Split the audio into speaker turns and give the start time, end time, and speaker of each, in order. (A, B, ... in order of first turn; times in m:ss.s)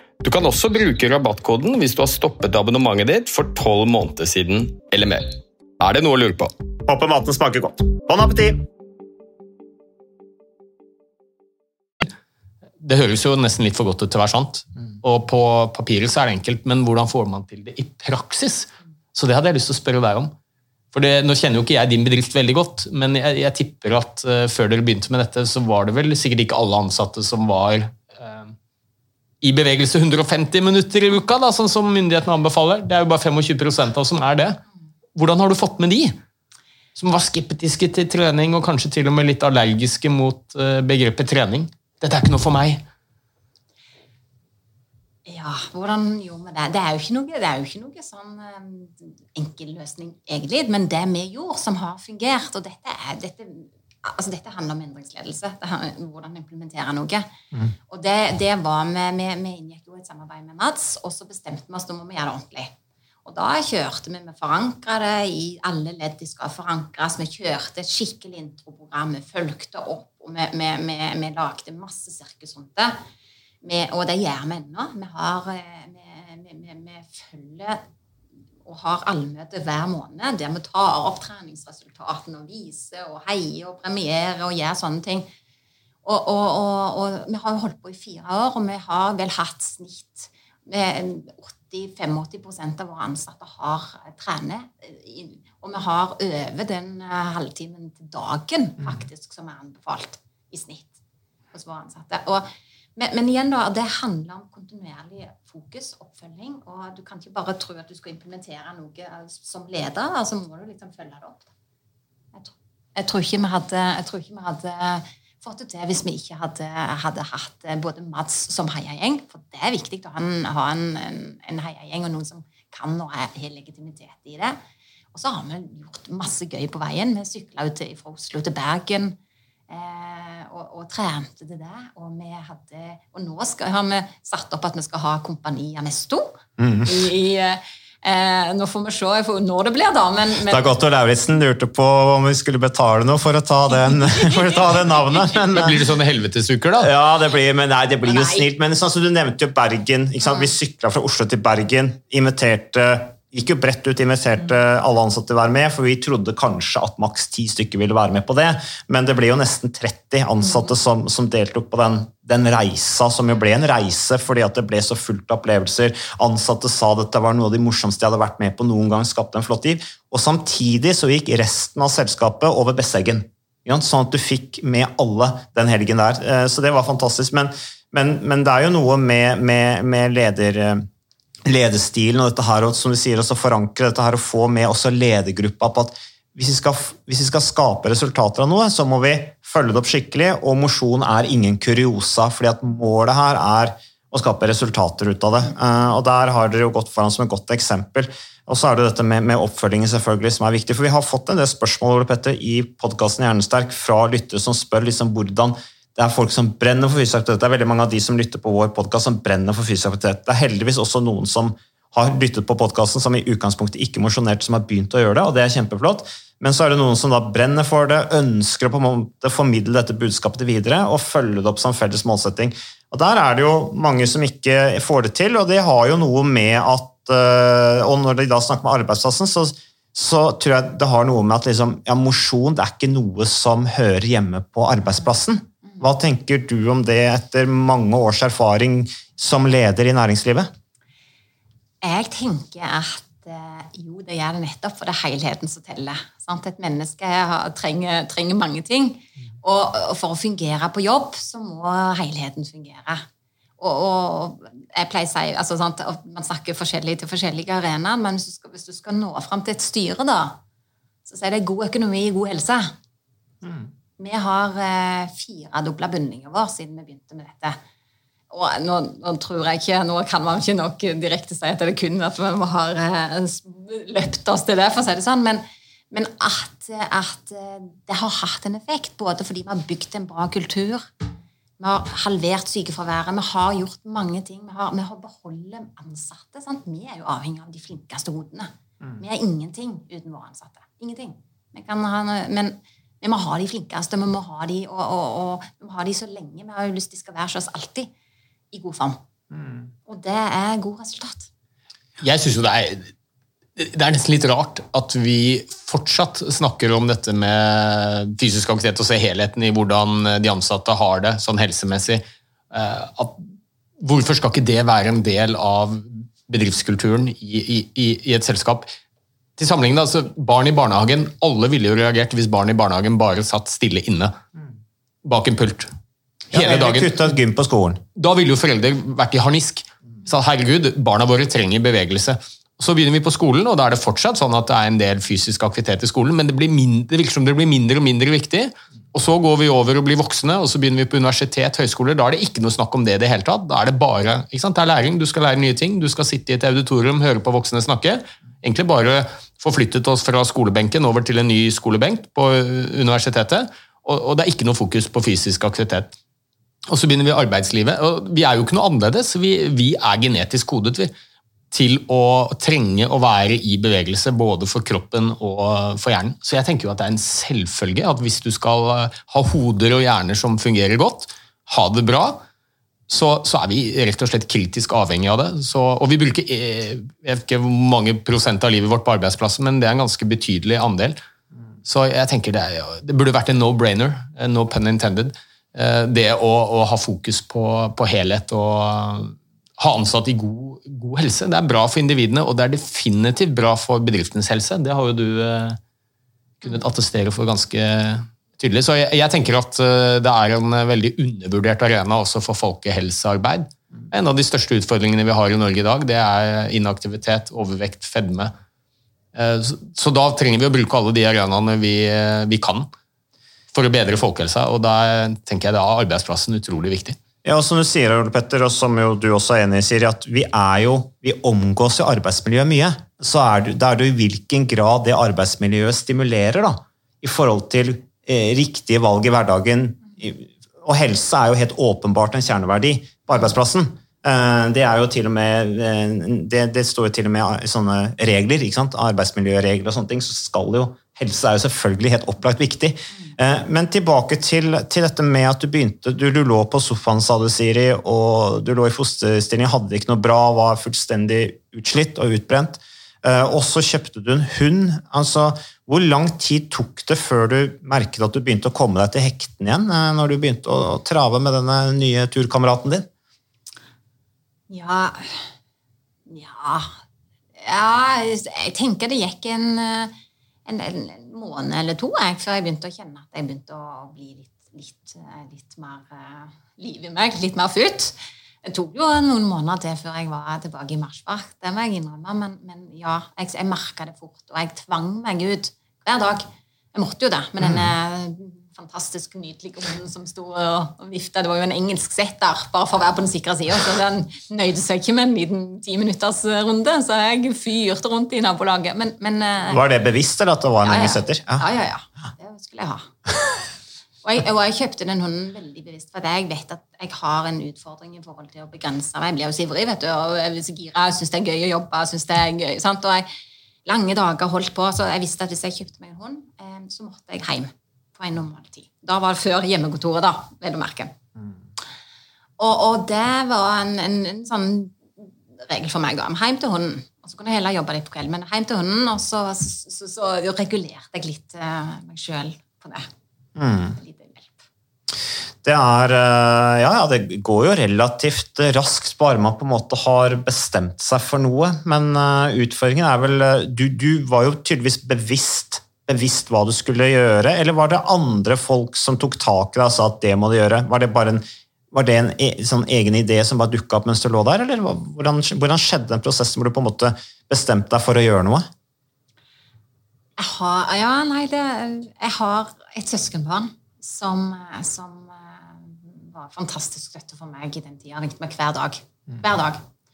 0:00.2-0:06.5 A
0:06.9-0:08.7 B
0:12.8-0:20.3 C
0:20.9-0:28.5 C
0:29.4-0:34.6 C
0:35.2-0:36.2 C
0:37.0-0:42.8 C
0:45.3-0:57.3 D
0:57.9-1:02.7 D
1:03.2-1:13.0 D
1:13.6-1:17.8 D
1:18.7-1:25.3 D
1:26.0-1:41.0 D
1:41.5-1:51.5 D
1:52.3-2:04.6 D
2:05.1-2:09.2 D
2:09.7-2:20.7 D
2:16.6-2:16.9 B
2:20.5-2:25.8 B
2:24.1-2:24.9 D
2:25.6-2:26.9 C
2:26.8-3:00.9 B
2:28.1-2:28.4 D
3:01.5-4:00.5 B
4:01.8-4:13.1 D
4:13.6-4:20.4 D
4:21.1-4:22.7 D
4:24.0-4:27.6 D
4:28.3-4:40.9 D
4:41.6-4:57.9 D
4:58.5-4:59.0 D
4:59.9-5:01.3 D
5:02.0-5:02.9 C
5:03.6-5:13.3 C
5:13.8-5:18.7 C
5:19.4-5:24.2 C
5:25.0-5:25.7 C
5:26.3-5:26.9 C
5:26.3-5:27.8 B
5:28.0-5:55.9 C
5:56.7-6:00.9 C
6:01.5-6:12.2 C
6:12.9-6:21.0 C
6:21.6-6:35.6 C
6:36.4-6:48.3 C
6:49.1-6:52.7 C
6:53.5-6:57.0 C
6:57.2-7:42.9 B
7:44.5-7:45.3 D
7:46.1-7:46.8 D
7:47.4-7:49.9 D
7:50.5-8:19.6 D
8:07.4-8:07.7 B
8:19.5-8:21.5 B
8:20.6-8:22.9 D
8:24.0-8:33.1 D
8:33.7-8:40.9 D
8:42.4-8:52.9 D
8:53.4-8:53.8 B
8:53.8-8:54.4 D
8:55.4-9:18.5 B
9:20.2-9:29.6 D